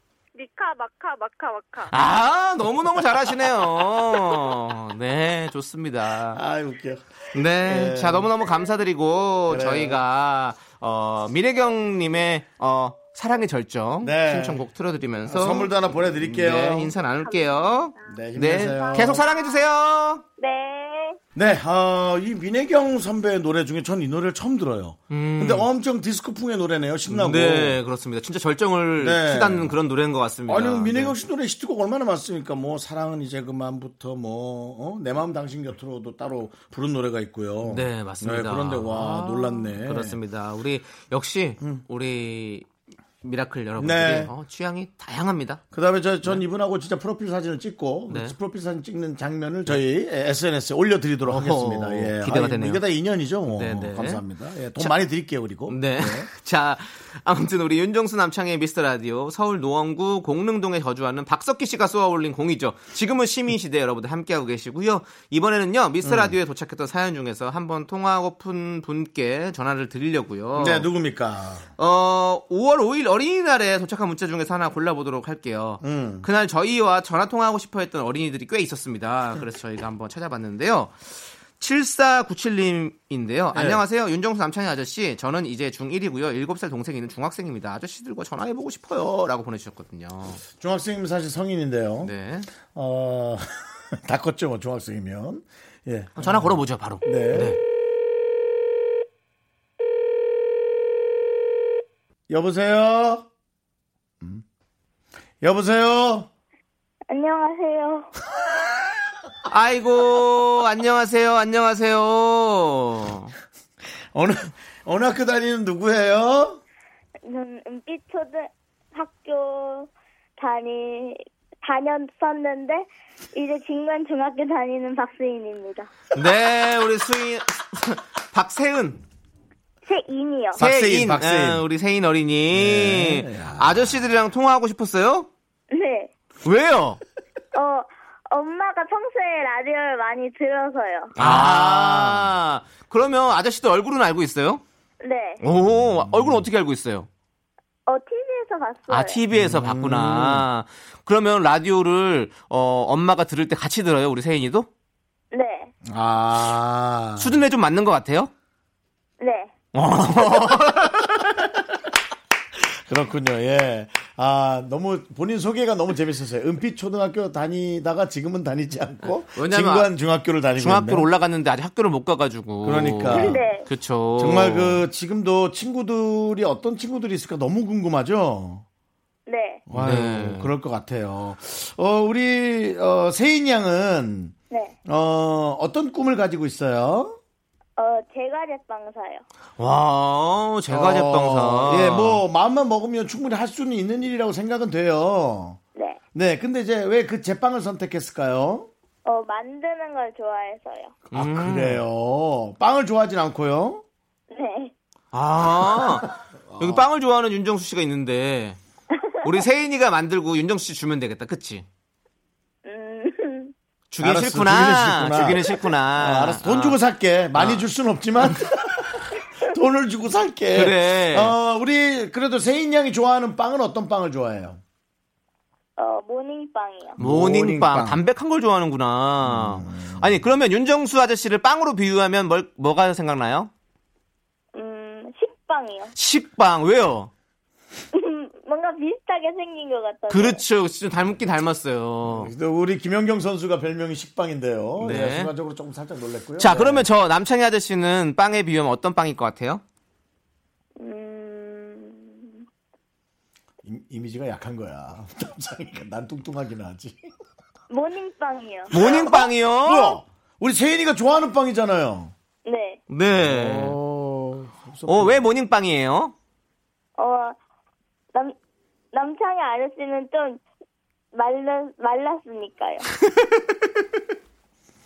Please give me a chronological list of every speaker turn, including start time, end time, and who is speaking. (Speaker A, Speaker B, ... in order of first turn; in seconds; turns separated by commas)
Speaker A: 0.3-2.0, Speaker B: 1.9-6.4, Speaker C: 6.3-8.3, Speaker B: 7.3-20.2, Speaker C: 9.5-10.0, Speaker C: 14.0-14.6, Speaker C: 15.3-16.9, Speaker A: 17.2-19.6, Speaker C: 18.1-19.2, Speaker D: 20.4-21.2, Speaker C: 21.4-27.8, Speaker B: 25.1-25.7, Speaker B: 27.1-31.2, Speaker C: 29.0-29.8, Speaker C: 30.5-40.2, Speaker B: 37.7-42.7, Speaker B: 43.2-45.6, Speaker C: 43.8-44.3, Speaker C: 45.7-56.3, Speaker B: 48.1-48.4, Speaker B: 51.2-52.8, Speaker B: 53.5-54.2, Speaker B: 55.7-70.9, Speaker C: 66.0-66.4, Speaker C: 70.6-71.7, Speaker B: 71.8-90.4, Speaker C: 75.8-76.3, Speaker C: 83.5-83.8, Speaker C: 90.6-97.6, Speaker B: 92.0-92.5, Speaker B: 96.2-97.6, Speaker C: 102.3-103.3, Speaker C: 105.4-106.3, Speaker D: 107.1-108.1, Speaker B: 109.5-113.3, Speaker C: 114.1-116.6, Speaker D: 117.2-125.9, Speaker B: 126.1-129.0, Speaker D: 129.8-130.6, Speaker C: 130.6-131.7, Speaker B: 130.6-135.3, Speaker C: 132.5-134.0, Speaker D: 135.7-136.1, Speaker B: 136.4-137.0, Speaker D: 137.5-141.1, Speaker B: 141.2-144.6, Speaker C: 141.2-142.3, Speaker D: 145.0-145.4, Speaker B: 145.4-147.1, Speaker C: 145.7-146.4, Speaker D: 147.9-149.2, Speaker B: 148.9-154.7, Speaker C: 149.3-150.5, Speaker D: 155.3-155.7, Speaker C: 155.9-157.4, Speaker B: 157.2-158.3, Speaker D: 159.2-159.5, Speaker B: 159.7-161.3, Speaker C: 162.9-171.1, Speaker B: 169.3-169.9, Speaker B: 170.6-174.8, Speaker C: 172.6-173.4, Speaker D: 173.1-173.7, Speaker C: 174.2-178.7, Speaker D: 179.3-179.7, Speaker C: 179.7-184.3, Speaker B: 179.7-180.5, Speaker C: 184.9-187.2, Speaker D: 187.8-189.2, Speaker B: 189.6-192.2, Speaker C: 190.7-195.6, Speaker C: 196.2-198.7, Speaker D: 199.1-201.0, Speaker C: 201.1-203.8, Speaker B: 201.1-201.8, Speaker D: 204.3-204.7, Speaker B: 205.1-208.6, Speaker C: 205.7-206.8, Speaker D: 208.9-209.3, Speaker B: 209.2-211.7, Speaker D: 212.7-213.5, Speaker B: 213.9-216.8, Speaker C: 214.0-224.6, Speaker B: 217.3-217.7, Speaker B: 220.5-221.3, Speaker D: 225.8-227.0, Speaker C: 227.0-228.0, Speaker B: 227.0-233.5, Speaker C: 229.2-230.3, Speaker D: 234.5-235.9, Speaker B: 235.9-237.1, Speaker D: 237.9-240.4, Speaker B: 240.1-242.3, Speaker C: 242.1-246.9, Speaker B: 244.8-245.3, Speaker B: 246.4-249.6, Speaker D: 250.8-252.5, Speaker C: 253.6-257.1, Speaker D: 257.7-259.3, Speaker B: 258.7-260.0, Speaker C: 258.7-262.1, Speaker D: 262.4-262.8, Speaker B: 262.9-263.8, Speaker C: 263.1-265.2, Speaker B: 264.9-266.1, Speaker D: 267.0-267.4, Speaker D: 268.9-270.4, Speaker D: 271.1-272.9